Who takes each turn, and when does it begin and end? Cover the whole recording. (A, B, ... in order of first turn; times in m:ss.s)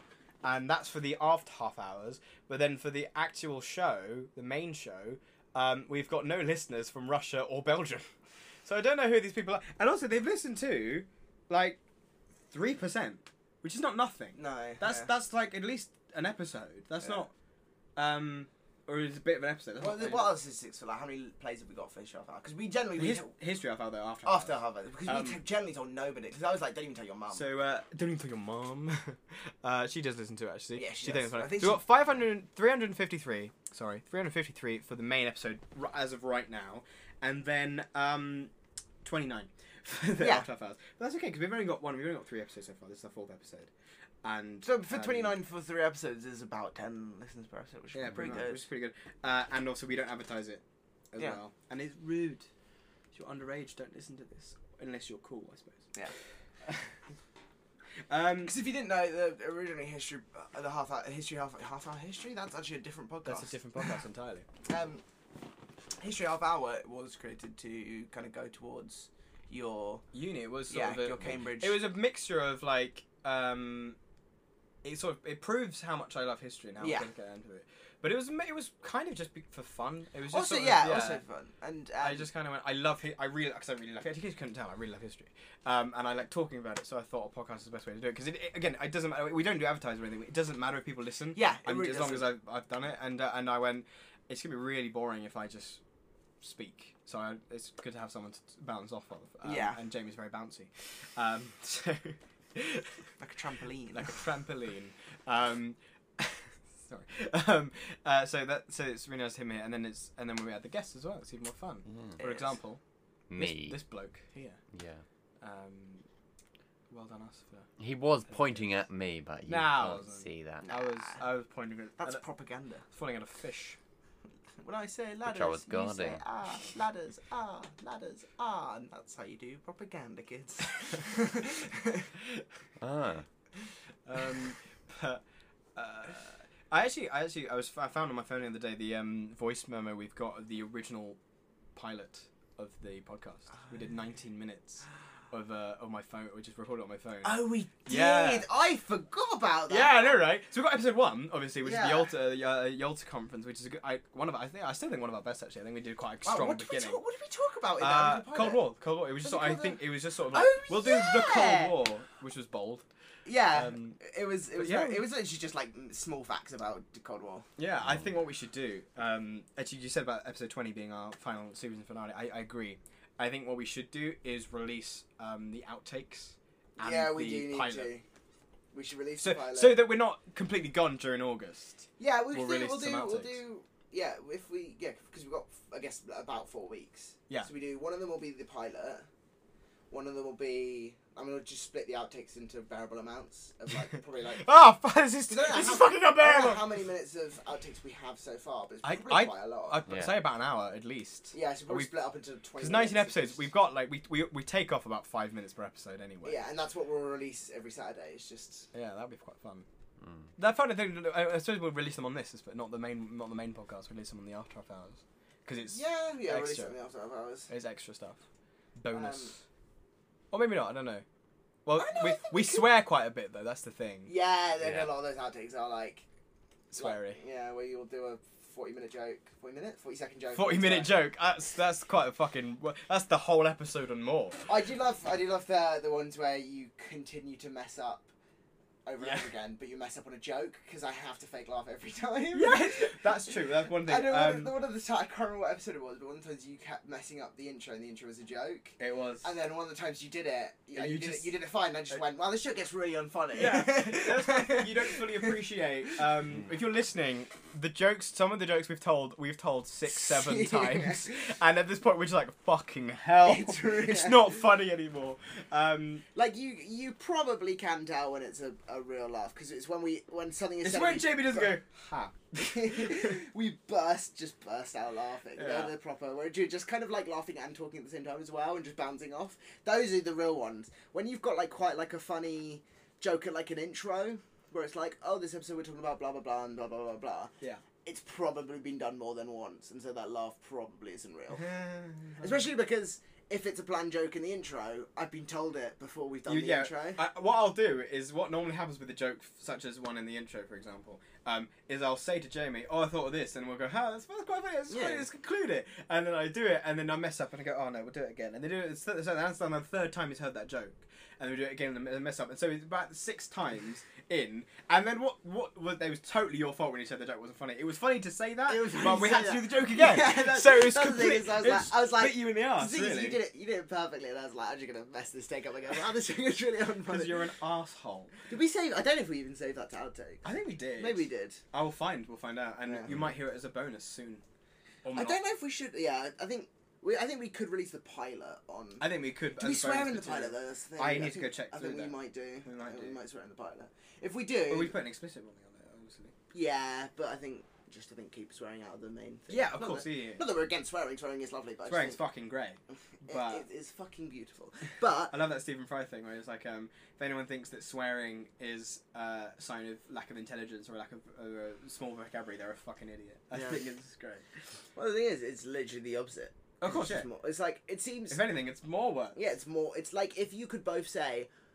0:00.4-0:08.1 A
0:08.6-0:11.8 A
0:12.5-0:17.3 A
0:14.4-0:15.1 B
0:18.0-0:20.4 A
0:19.8-0:23.3 B
0:23.0-0:25.4 A
0:24.2-0:27.4 B
0:27.3-0:38.5 A
0:30.8-0:32.2 B
0:39.0-0:43.7 A
0:40.2-0:40.5 B
0:44.2-0:45.4 A
0:44.6-0:48.7 B
0:47.9-0:52.5 A
0:48.1-0:48.4 C
0:53.1-0:55.9 A
0:56.7-0:56.9 A
0:58.1-0:58.6 A
0:58.4-1:04.0 B
1:03.2-1:04.5 A
1:04.7-1:05.0 B
1:06.0-1:10.0 B
1:10.1-1:14.0 A
1:10.7-1:11.8 B
1:14.8-1:21.2 A
1:16.8-1:17.1 B
1:20.3-1:22.3 B
1:22.0-1:35.8 A
1:31.4-1:32.3 B
1:36.4-1:43.0 A
1:39.4-1:39.8 B
1:43.2-1:44.2 B
1:43.9-1:52.8 A
1:51.9-1:52.2 C
1:52.2-1:52.5 B
1:53.3-1:53.8 C
1:53.4-1:54.6 A
1:54.7-1:55.0 C
1:55.4-1:56.0 A
1:56.9-1:57.7 A
1:57.8-2:00.7 C
1:58.3-1:58.7 A
1:59.5-2:02.2 A
2:00.6-2:01.2 B
2:02.0-2:02.8 B
2:02.9-2:03.8 A
2:04.6-2:12.1 B
2:05.2-2:06.2 C
2:12.8-2:13.3 C
2:14.1-2:15.2 A
2:15.8-2:21.2 A
2:21.8-2:28.5 A
2:27.2-2:30.2 B
2:29.7-2:37.0 A
2:31.6-2:32.1 B
2:36.2-2:41.8 B
2:37.8-2:42.8 A
2:43.2-2:47.5 B
2:43.5-2:44.0 A
2:44.5-2:45.1 A
2:47.6-2:57.9 A
2:56.8-2:58.0 B
2:58.7-2:59.8 B
2:59.2-3:03.4 A
3:02.0-3:09.1 B
3:09.9-3:14.5 B
3:14.3-3:16.7 A
3:15.3-3:19.8 B
3:18.8-3:21.9 A
3:19.9-3:20.2 C
3:21.3-3:23.5 B
3:22.6-3:26.4 A
3:26.2-3:28.7 B
3:28.7-3:29.7 A
3:30.0-3:30.3 C
3:30.4-3:36.8 A
3:35.7-3:37.5 B
3:37.5-3:38.2 A
3:38.8-3:39.4 A
3:38.9-3:39.4 B
3:40.3-3:41.0 A
3:41.7-3:44.1 A
3:41.8-3:42.7 B
3:44.1-3:46.1 B
3:44.6-3:44.9 C
3:46.7-3:47.2 A
3:46.8-3:51.0 B
3:50.3-3:54.4 A
3:54.4-3:58.1 B
3:58.9-4:15.4 B
3:59.0-3:59.3 A
4:02.3-4:04.6 A
4:08.8-4:09.3 A
4:10.7-4:11.4 A
4:13.4-4:26.0 A
4:19.9-4:21.1 B
4:23.2-4:24.4 B
4:26.1-4:31.6 B
4:30.6-4:33.1 A
4:32.4-4:51.5 B
4:35.4-4:35.7 A
4:51.4-4:52.4 A
4:52.2-4:57.0 B
4:56.3-5:23.2 A
5:04.7-5:05.1 B
5:18.5-5:27.2 B
5:26.8-5:28.2 A
5:28.3-5:31.4 B
5:30.2-5:34.2 A
5:32.6-5:32.9 B
5:34.8-5:35.2 A
5:34.9-5:44.8 B
5:38.8-5:43.0 A
5:44.5-5:46.1 A
5:46.3-5:52.0 B
5:49.3-5:50.2 A
5:51.7-5:53.5 A
5:53.0-5:55.2 B
5:55.1-6:04.2 A
6:03.3-6:03.6 B
6:04.8-6:08.2 B
6:06.6-6:07.1 A
6:08.1-6:09.2 A
6:09.2-6:11.3 B